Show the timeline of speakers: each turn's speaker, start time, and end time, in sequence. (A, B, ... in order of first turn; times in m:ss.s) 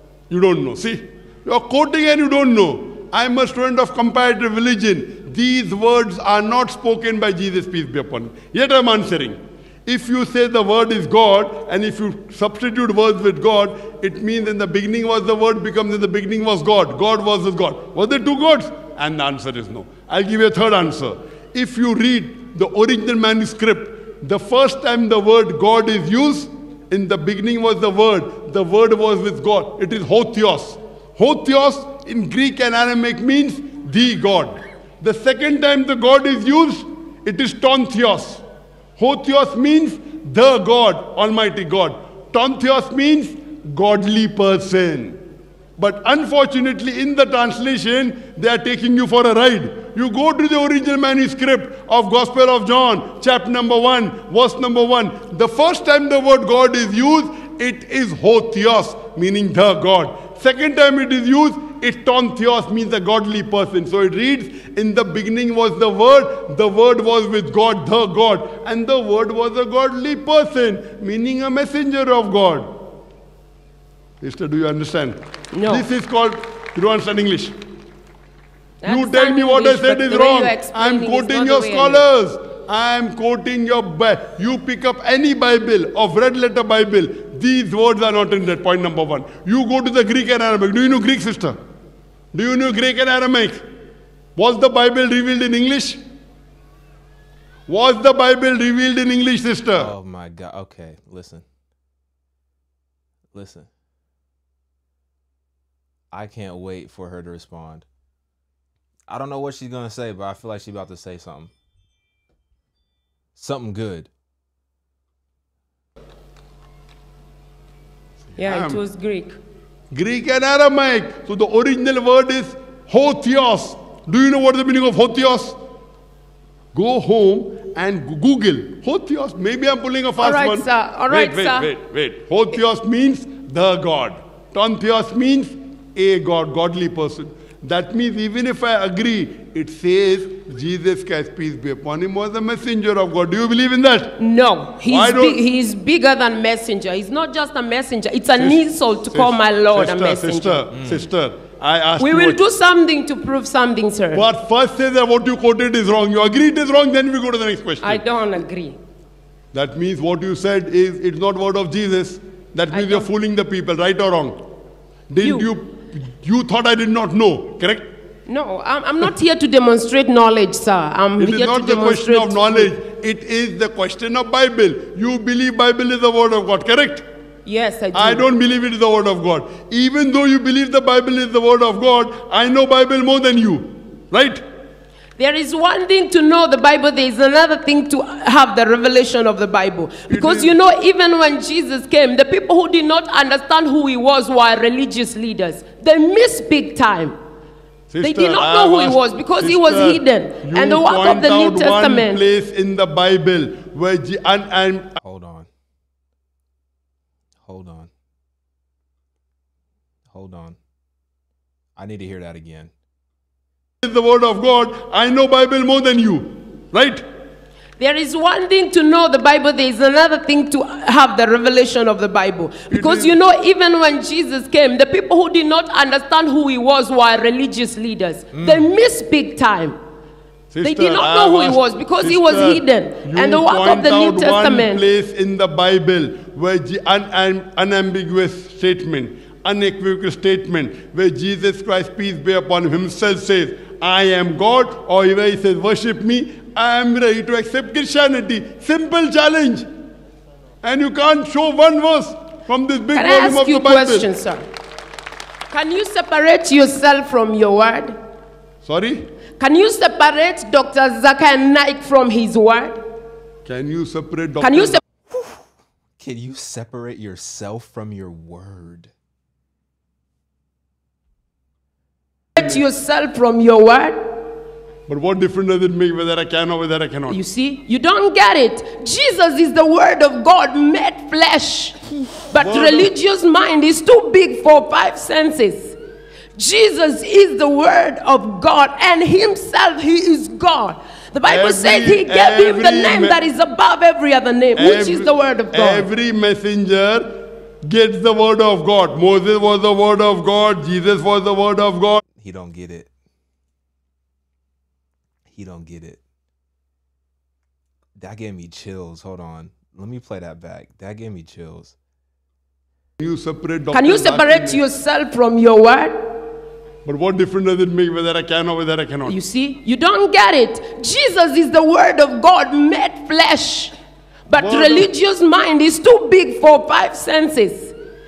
0:00.3-0:38.4 A
0:39.0-0:45.2 A
0:45.8-1:12.7 A
1:14.2-1:17.6 A
1:15.5-1:15.8 B
1:18.8-1:22.0 B
1:18.8-1:31.6 A
1:32.3-1:33.6 A
1:34.4-1:36.0 A
1:37.7-1:39.9 A
1:39.7-1:41.4 C
1:43.3-1:43.7 C
1:46.1-1:47.8 C
1:49.1-1:51.5 C
1:53.4-1:54.1 C
1:58.4-1:59.4 B
1:58.4-1:58.8 A
1:59.9-2:05.6 A
2:06.7-2:24.2 A
2:10.2-2:11.7 B
2:24.2-2:30.6 B
2:24.8-2:25.4 A
2:28.3-2:32.4 A
2:30.7-2:31.0 C
2:32.0-2:34.2 B
2:34.1-2:38.0 A
2:37.8-2:38.8 B
2:39.5-2:44.4 A
2:42.7-2:43.1 B
2:45.1-2:47.9 A
2:45.2-2:45.5 B
2:48.3-2:52.7 B
2:51.2-2:57.0 A
2:57.4-2:58.2 B
2:57.9-3:04.4 A
3:05.2-3:17.2 B
3:10.1-3:10.6 A
3:17.9-3:25.0 A
3:18.0-3:22.2 B
3:25.0-3:25.5 C
3:27.4-3:27.9 C
3:30.1-3:30.6 C
3:31.8-3:32.7 C
3:33.8-3:37.0 A
3:37.8-3:49.8 B
3:42.7-3:43.2 A
3:48.3-3:48.7 C
3:50.5-4:09.7 A
3:50.6-3:54.8 B
4:10.6-4:14.1 A
4:12.9-4:14.4 B
4:15.5-4:18.0 B
4:18.6-4:19.0 A
4:19.4-4:22.8 B
4:23.4-4:24.8 A
4:24.4-4:24.8 B
4:25.1-4:25.4 C
4:26.0-4:28.9 C
4:32.3-4:34.2 B
4:32.4-4:32.6 A
4:34.9-4:37.2 A
4:37.1-4:45.8 B
4:42.4-4:42.9 A
4:46.3-4:55.9 B
4:51.2-4:53.2 A
4:54.6-5:02.0 A
5:02.2-5:02.9 C
5:05.3-5:06.0 C
5:08.0-5:11.7 C
5:13.0-5:14.6 A
5:13.7-5:16.2 B
5:16.8-5:19.2 A
5:19.0-5:23.7 B
5:24.3-5:27.7 B
5:24.4-5:24.9 A